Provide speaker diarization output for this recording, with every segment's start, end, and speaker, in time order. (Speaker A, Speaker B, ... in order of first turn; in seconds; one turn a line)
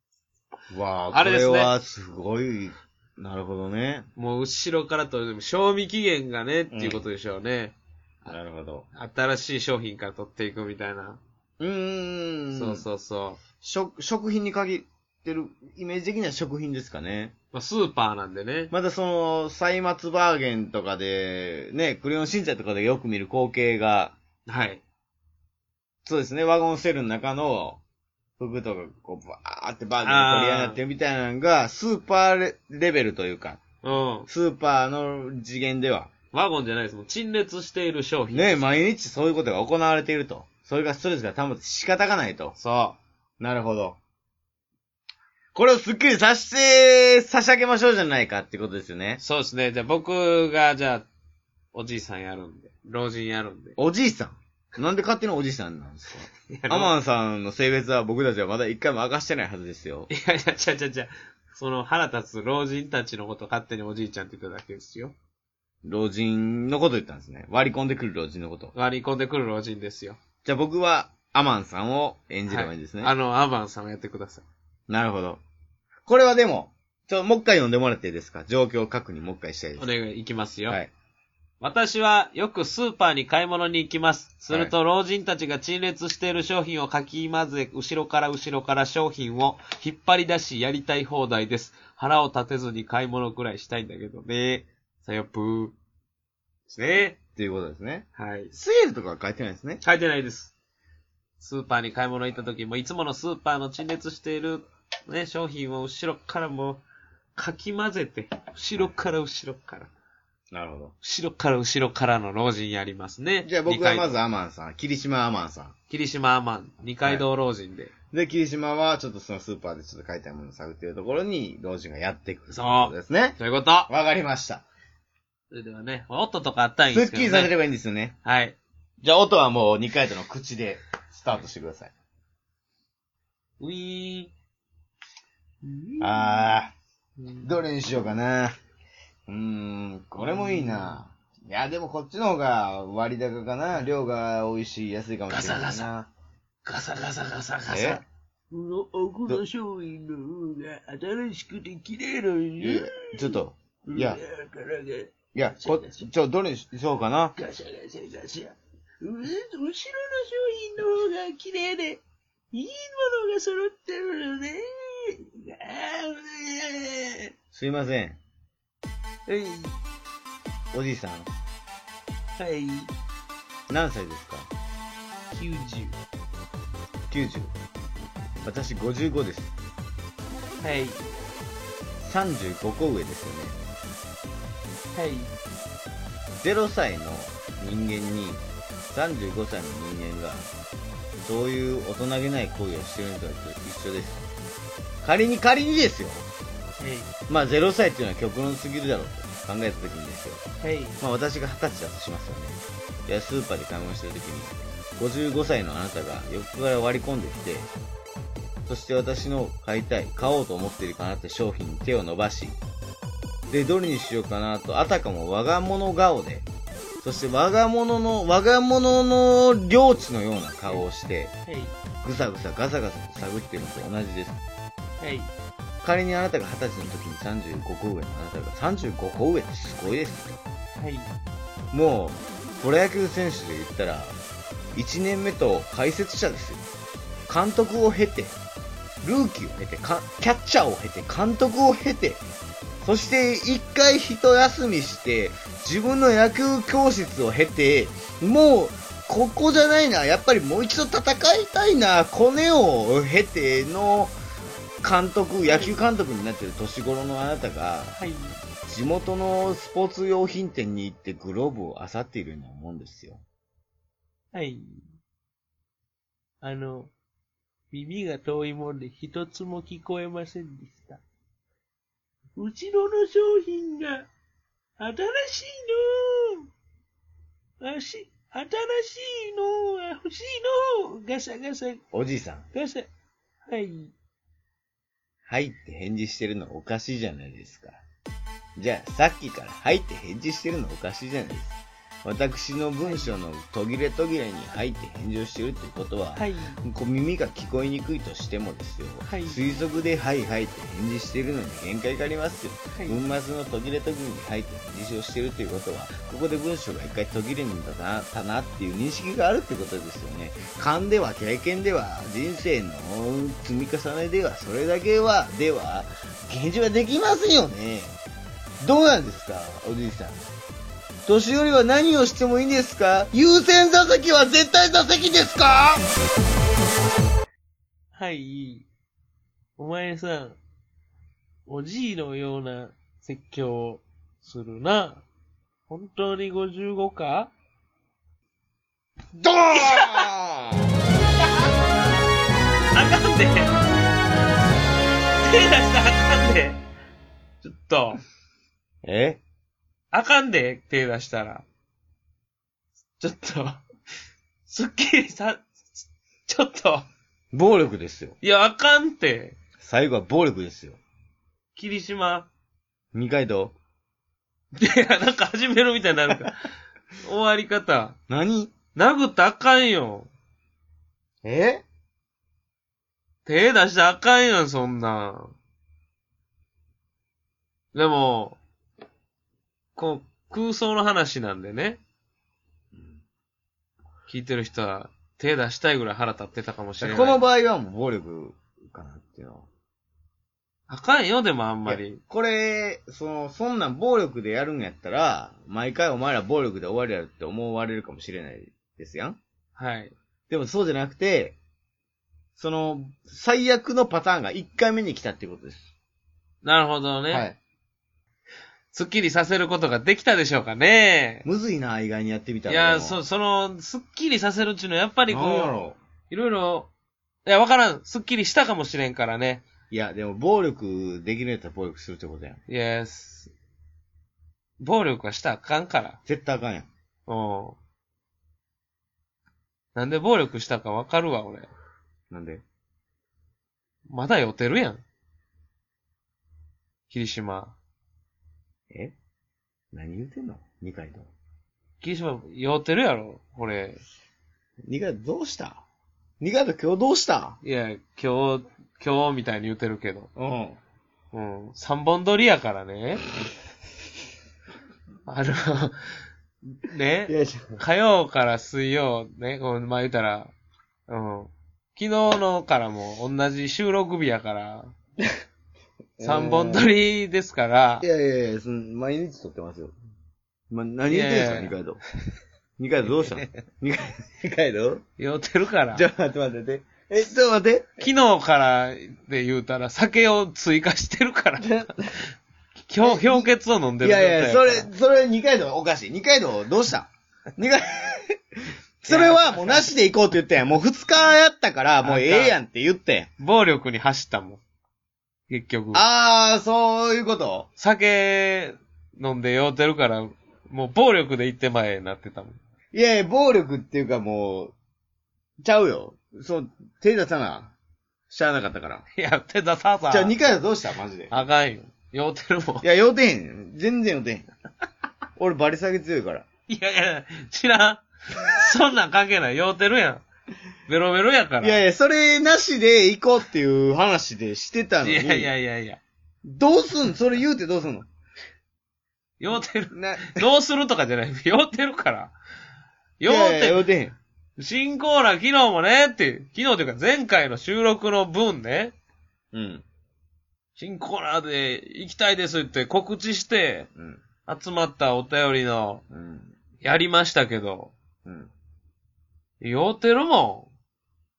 Speaker A: 0.7-4.1
Speaker B: 1.1-1.7
Speaker B: 4.2-8.3
Speaker A: 6.7-7.1
Speaker A: 8.3-8.9
Speaker B: 8.9-11.2
Speaker A: 11.6-12.8
Speaker B: 12.5-13.4
Speaker A: 13.6-17.3
Speaker B: 17.5-18.7
Speaker A: 18.7-24.2
Speaker B: 24.5-24.8
Speaker A: 26.1-27.8
Speaker A: 28.4-33.6
Speaker B: 30.0-30.8
Speaker B: 33.8-34.3
Speaker A: 34.3-36.1
Speaker B: 36.3-38.6
Speaker A: 38.3-42.5
Speaker B: 42.6-43.0
Speaker A: 43.4-44.0
Speaker A: 45.5-49.2
Speaker B: 49.2-51.1
Speaker B: 51.7-53.8
Speaker A: 53.8-60.1
Speaker B: 56.5-56.9
Speaker B: 60.1-65.1
Speaker A: 65.8-68.7
Speaker B: 68.7-70.2
Speaker A: 70.5-73.1
Speaker B: 72.5-74.5
Speaker A: 74.9-75.4
Speaker A: 76.1-79.9
Speaker B: 79.8-80.8
Speaker B: 81.6-95.8
Speaker B: 96.7-97.2
Speaker A: 97.4-99.8
Speaker B: 98.2-98.5
Speaker B: 99.8-100.5
Speaker B: 101.4-106.8
Speaker B: 107.4-109.9
Speaker A: 110.5-110.9
Speaker B: 111.0-114.2
Speaker A: 113.4-115.7
Speaker B: 115.9-117.9
Speaker A: 118.1-123.4
Speaker B: 122.5-123.9
Speaker A: 123.9-124.6
Speaker B: 125.5-127.5
Speaker A: 126.9-128.2
Speaker B: 128.2-128.6
Speaker A: 129.0-131.9
Speaker B: 133.6-134.3
Speaker B: 135.6-136.6
Speaker A: 136.0-136.7
Speaker B: 137.2-137.6
Speaker A: 137.4-138.6
Speaker A: 139.3-146.1
Speaker B: 140.2-141.0
Speaker B: 145.3-145.9
Speaker B: 146.7-156.1
Speaker A: 147.7-148.0
Speaker A: 152.6-154.2
Speaker A: 155.3-157.3
Speaker B: 157.4-167.3
Speaker A: 167.5-168.2
Speaker B: 169.3-169.8
Speaker A: 170.7-171.3
Speaker B: 172.4-172.9
Speaker A: 173.7-174.5
Speaker B: 175.3-175.9
Speaker A: 177.1-177.5
Speaker A: 178.4-179.5
Speaker B: 180.6-181.1
Speaker A: 182.0-183.6
Speaker B: 184.9-185.3
Speaker A: 186.4-190.5
Speaker A: 191.2-194.3
Speaker A: 195.0-196.3
Speaker B: 196.8-197.1
Speaker A: 197.3-200.4
Speaker B: 200.6-201.0
Speaker A: 201.0-207.7
Speaker A: 208.7-212.6
Speaker A: 213.5-216.5
Speaker A: 217.0-221.3
Speaker B: 221.5-221.7
Speaker A: 222.0-224.4
Speaker B: 225.0-225.3
Speaker A: 225.8-230.4
Speaker B: 230.8-231.1
Speaker A: 231.7-234.2
Speaker A: 234.8-236.7
Speaker A: 237.3-238.4
Speaker A: 239.0-242.2
Speaker A: 242.8-254.2
Speaker A: 254.8-258.0
Speaker B: 255.5-255.7
Speaker B: 257.9-258.4
Speaker A: 258.6-263.2
Speaker B: 264.3-264.8
Speaker B: 266.4-266.9
Speaker B: 267.7-271.0
Speaker B: 272.4-274.1
Speaker B: 274.8-276.5
Speaker B: 277.6-281.8
Speaker A: 281.9-282.5
Speaker B: 282.5-282.9
Speaker B: 283.5-283.9
Speaker A: 285.3-287.8
Speaker A: 288.6-318.0
Speaker B: 292.8-293.2
Speaker B: 296.1-296.6
Speaker B: 299.1-299.5
Speaker B: 302.8-303.0
Speaker A: 318.6-320.2
Speaker A: 321.1-325.9
Speaker B: 327.9-328.7
Speaker B: 329.6-330.4
Speaker B: 331.5-335.0
Speaker B: 335.7-337.3
Speaker A: 339.1-340.7
Speaker B: 339.5-340.1
Speaker B: 342.8-343.6
Speaker B: 345.2-346.6
Speaker B: 347.4-348.0
Speaker A: 348.8-349.2
Speaker B: 349.9-351.4
Speaker B: 353.0-353.6
Speaker B: 354.5-356.9
Speaker A: 357.3-358.2
Speaker B: 358.2-359.4
Speaker A: 359.6-360.8
Speaker B: 361.6-362.3
Speaker A: 362.9-363.5
Speaker B: 364.6-366.3
Speaker B: 367.0-368.0
Speaker A: 368.1-368.5
Speaker B: 368.7-370.1
Speaker A: 371.2-371.6
Speaker B: 373.2-375.4
Speaker B: 377.7-378.4
Speaker B: 379.8-381.8
Speaker A: 382.7-383.0
Speaker B: 384.1-387.2
Speaker A: 386.8-389.5
Speaker B: 390.7-392.0
Speaker A: 391.6-399.2
Speaker B: 399.6-399.9
Speaker A: 400.3-401.4
Speaker A: 402.4-405.7
Speaker B: 406.4-407.3
Speaker A: 407.1-407.4
Speaker B: 408.7-411.2
Speaker A: 411.2-413.0
Speaker B: 412.5-415.6
Speaker A: 415.1-415.8
Speaker B: 416.1-416.7
Speaker B: 417.2-419.4
Speaker A: 419.7-422.4
Speaker B: 422.5-423.3
Speaker B: 424.6-426.0
Speaker A: 426.1-426.7
Speaker B: 427.1-427.6
Speaker B: 429.8-431.5
Speaker A: 432.1-432.4
Speaker B: 433.9-434.8
Speaker B: 436.9-437.6
Speaker A: 438.7-438.9
Speaker A: 439.7-441.1
Speaker B: 441.8-443.8
Speaker A: 444.6-445.6
Speaker A: 446.2-447.4
Speaker B: 447.4-450.1
Speaker A: 450.2-450.6
Speaker B: 451.1-453.1
Speaker B: 455.1-455.8
Speaker B: 456.5-460.3
Speaker A: 457.1-457.6
Speaker B: 460.9-464.7
Speaker A: 466.0-466.7
Speaker B: 466.0-467.9
Speaker A: 467.8-469.7
Speaker A: 470.5-471.8
Speaker B: 470.9-471.5
Speaker A: 472.6-474.8
Speaker B: 472.9-473.4
Speaker B: 475.0-475.9
Speaker A: 475.7-477.9
Speaker B: 477.8-482.1
Speaker A: 481.4-481.9
Speaker B: 482.7-484.7
Speaker A: 482.8-483.3
Speaker A: 483.8-488.2
Speaker A: 488.8-493.1
Speaker B: 488.9-489.7
Speaker B: 491.8-492.3
Speaker B: 493.2-494.4
Speaker B: 495.3-495.8
Speaker A: 495.7-497.5
Speaker B: 497.6-502.4
Speaker A: 502.7-504.5
Speaker A: 505.4-507.5
Speaker A: 508.1-508.8
Speaker B: 508.9-510.2
Speaker A: 509.9-511.2
Speaker B: 511.1-512.6
Speaker A: 512.6-514.3
Speaker A: 515.2-516.2
Speaker B: 516.5-520.0
Speaker B: 520.7-521.6
Speaker A: 521.4-525.3
Speaker B: 524.8-525.8
Speaker A: 526.2-527.9
Speaker B: 529.2-532.1
Speaker A: 529.7-530.3
Speaker B: 533.0-533.6
Speaker A: 533.1-534.0
Speaker B: 534.4-538.7
Speaker A: 539.3-539.6
Speaker B: 540.6-543.7
Speaker A: 543.8-544.0
Speaker B: 544.3-545.8
Speaker A: 545.9-546.4
Speaker B: 546.6-547.7
Speaker A: 548.0-548.3
Speaker B: 549.4-550.5